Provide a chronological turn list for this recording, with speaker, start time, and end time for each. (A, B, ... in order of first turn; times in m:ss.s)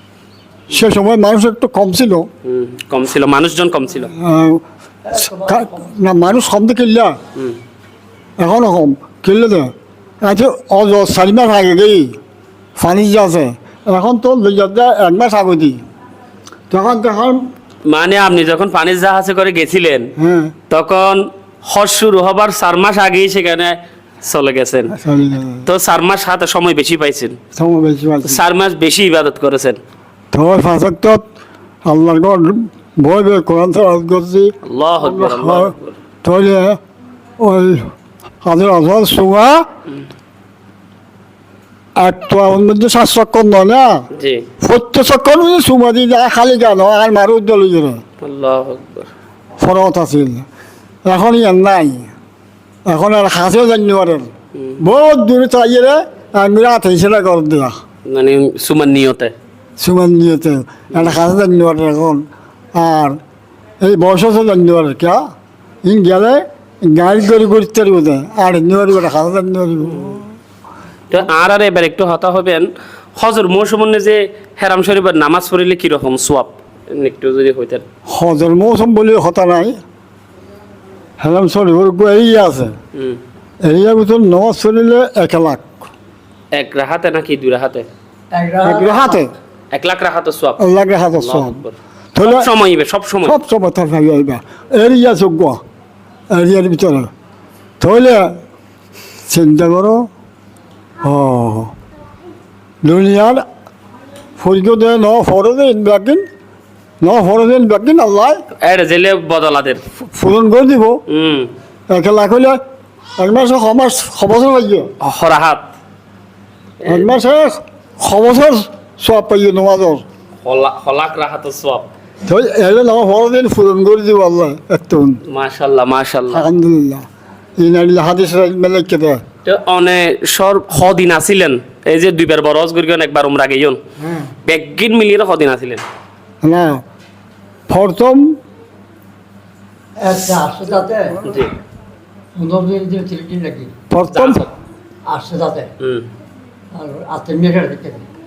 0:00.7-0:02.3 A
0:02.4-0:04.1 B
0:04.1-0:07.2 A
0:05.1-0:05.9 C
0:08.4-0:12.2 A
0:12.8-0:15.8 A
0:16.7-0:17.4 A
0:17.9-0:20.1 B
0:20.2-0:20.5 A
0:20.7-0:25.0 B
0:24.9-0:25.7 A
0:25.6-0:27.4 B
0:27.6-0:28.4 A
0:28.2-0:29.8 B
0:30.3-0:31.2 A
0:31.9-0:36.8 A
0:34.6-0:36.0 B
0:37.4-0:37.9 A
0:38.4-0:39.6 A
0:42.0-0:44.0 A
0:44.1-0:44.5 B
0:44.6-0:48.0 A
0:48.2-0:49.1 B
0:49.6-0:50.4 A
0:51.1-0:52.1 A
0:52.9-0:57.8 A
0:54.6-0:54.8 B
0:58.1-0:59.3 B
0:59.8-1:03.2 A
1:00.9-1:01.2 B
1:03.8-1:05.2 A
1:05.8-1:10.2 A
1:11.1-1:17.8 B
1:18.1-1:19.8 A
1:21.2-1:22.7 A
1:23.6-1:25.9 A
1:26.5-1:27.9 B
1:28.3-1:29.2 C
1:28.6-1:29.3 A
1:29.7-1:30.6 B
1:30.6-1:31.6 A
1:31.1-1:33.4 B
1:32.1-1:32.5 A
1:33.2-1:35.6 A
1:36.3-1:37.1 A
1:37.8-1:38.3 A
1:39.3-1:40.1 A
1:41.0-1:41.7 A
1:42.8-1:43.4 A
1:44.4-1:46.2 A
1:47.0-1:48.4 A
1:48.6-1:49.8 B
1:50.1-1:51.0 A
1:51.1-1:51.5 B
1:51.9-1:52.6 A
1:53.2-1:54.9 A
1:55.0-1:55.7 B
1:56.8-1:57.1 B
1:56.9-2:00.0 A
2:00.4-2:01.9 B
2:02.3-2:05.2 A
2:05.3-2:06.5 B
2:06.3-2:07.0 A
2:07.6-2:09.2 A
2:09.4-2:13.8 B
2:14.0-2:14.3 A
2:14.5-2:15.8 B
2:16.4-2:16.8 A
2:17.7-2:18.4 A
2:20.0-2:21.2 C
2:21.2-2:21.6 B
2:22.4-2:23.7 C
2:23.9-2:24.4 A
2:24.1-2:24.5 B
2:25.1-2:25.7 C
2:25.8-2:26.1 B
2:26.7-2:28.0 C